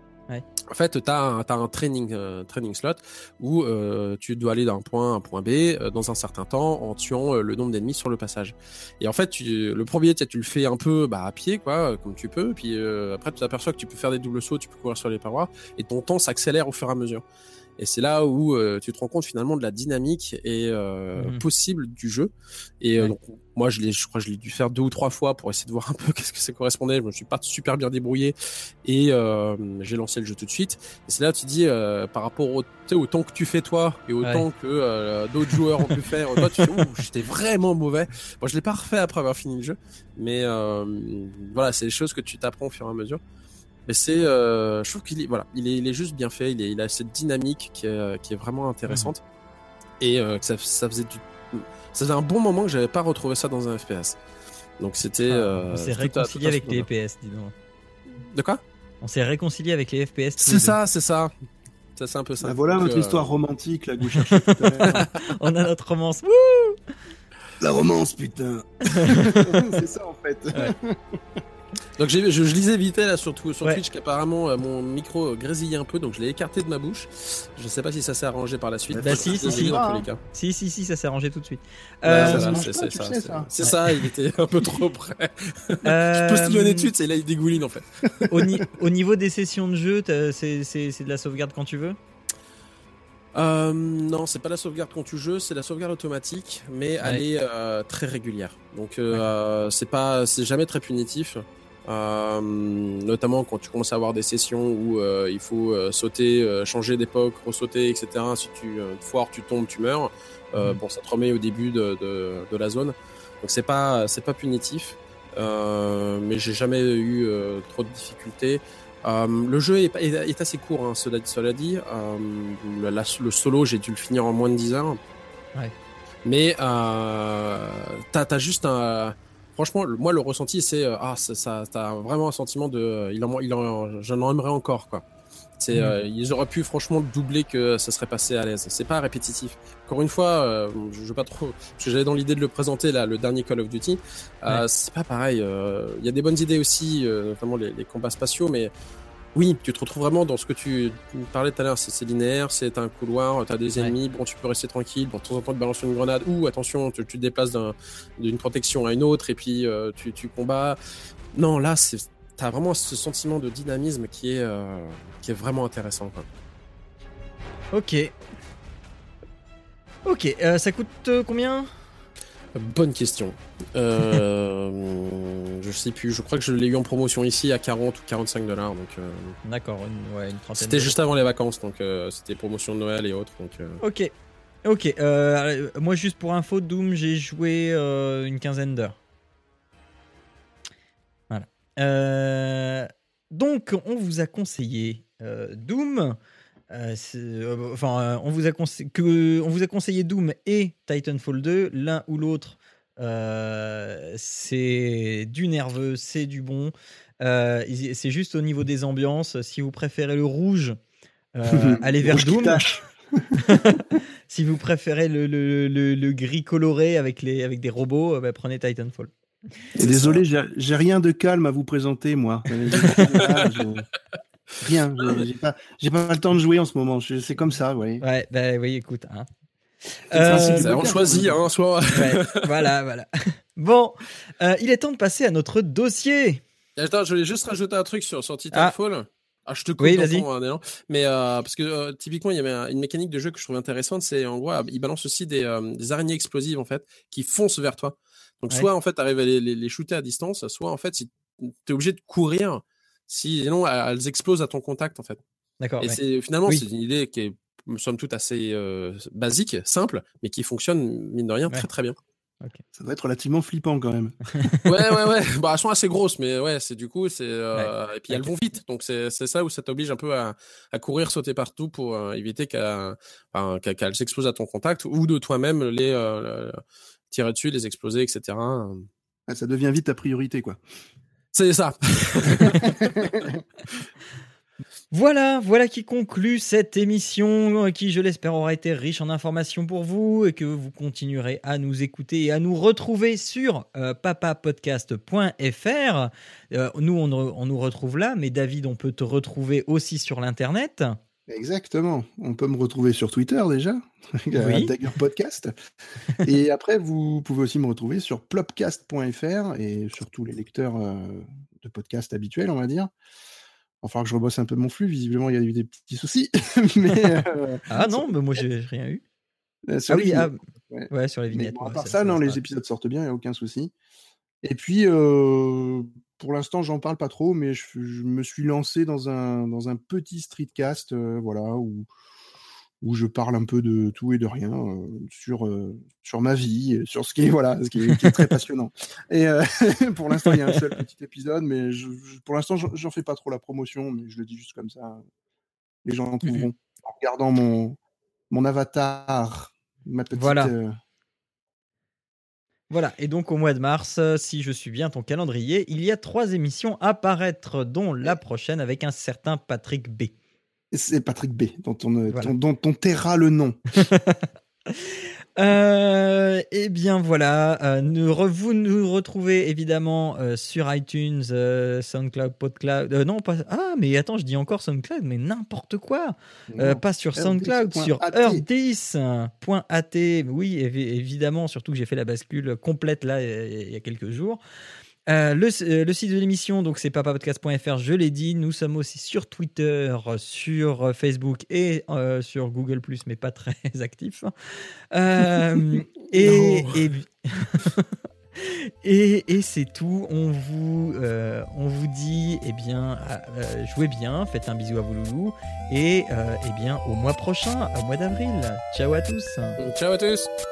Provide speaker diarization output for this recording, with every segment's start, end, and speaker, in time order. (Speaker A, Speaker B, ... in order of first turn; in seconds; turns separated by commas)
Speaker A: 0.7-17.2, Speaker A: 17.8-43.2, Speaker B: 21.2-21.4, Speaker A: 43.9-49.2, Speaker A: 50.0-54.2, Speaker A: 54.8-56.9, Speaker B: 55.2-57.5, Speaker A: 58.3-58.6, Speaker B: 59.0-60.8, Speaker A: 60.4-61.3, Speaker A: 62.0-63.3, Speaker C: 62.4-65.0, Speaker B: 64.2-66.8, Speaker C: 67.6-71.4, Speaker B: 68.8-69.7, Speaker A: 72.0-80.2, Speaker C: 78.9-80.1, Speaker B: 79.0-79.8, Speaker B: 80.3-82.7, Speaker C: 82.1-83.5, Speaker A: 82.1-88.1, Speaker B: 85.8-86.9, Speaker B: 88.3-92.0, Speaker A: 93.3-125.0, Speaker A: 126.2-135.0, Speaker A: 135.6-148.7, Speaker A: 149.3-160.8, Speaker A: 161.3-166.2, Speaker B: 167.7-168.1, Speaker B: 170.0-171.7, Speaker A: 172.5-179.4, Speaker B: 179.4-180.9, Speaker A: 180.6-183.8, Speaker B: 183.8-184.1, Speaker B: 184.6-189.0, Speaker B: 191.3-196.2, Speaker B: 196.7-210.8, Speaker B: 211.3-212.6, Speaker C: 211.5-213.4, Speaker B: 213.4-219.1, Speaker C: 219.8-223.9, Speaker B: 219.8-220.2, Speaker C: 224.6-228.0, Speaker B: 228.0-229.3, Speaker B: 230.1-230.8, Speaker C: 230.1-231.4, Speaker A: 230.2-232.7, Speaker B: 231.9-236.4, Speaker A: 236.8-255.2, Speaker B: 239.8-240.2, Speaker B: 255.6-256.6, Speaker A: 255.8-261.9, Speaker C: 262.7-264.2, Speaker B: 264.3-264.7, Speaker A: 264.6-276.6, Speaker B: 267.5-268.3, Speaker A: 277.1-278.9, Speaker C: 279.3-280.6, Speaker A: 281.3-282.9, Speaker C: 282.6-283.4, Speaker B: 284.9-301.0, Speaker C: 301.3-305.5, Speaker B: 304.4-304.7, Speaker C: 306.2-312.9, Speaker C: 313.8-318.1, Speaker B: 317.7-319.0, Speaker C: 319.7-323.7, Speaker B: 319.9-320.4, Speaker B: 320.9-322.4, Speaker C: 324.4-331.9, Speaker C: 332.8-345.0, Speaker B: 340.2-340.5, Speaker C: 345.8-347.8, Speaker B: 346.2-346.5, Speaker C: 348.3-350.7, Speaker B: 350.1-350.5, Speaker B: 352.7-360.1, Speaker C: 360.7-363.6, Speaker B: 363.7-384.4, Speaker C: 376.5-378.4, Speaker B: 385.1-394.3, Speaker B: 394.9-409.6, Speaker A: 396.2-396.8, Speaker A: 409.6-410.3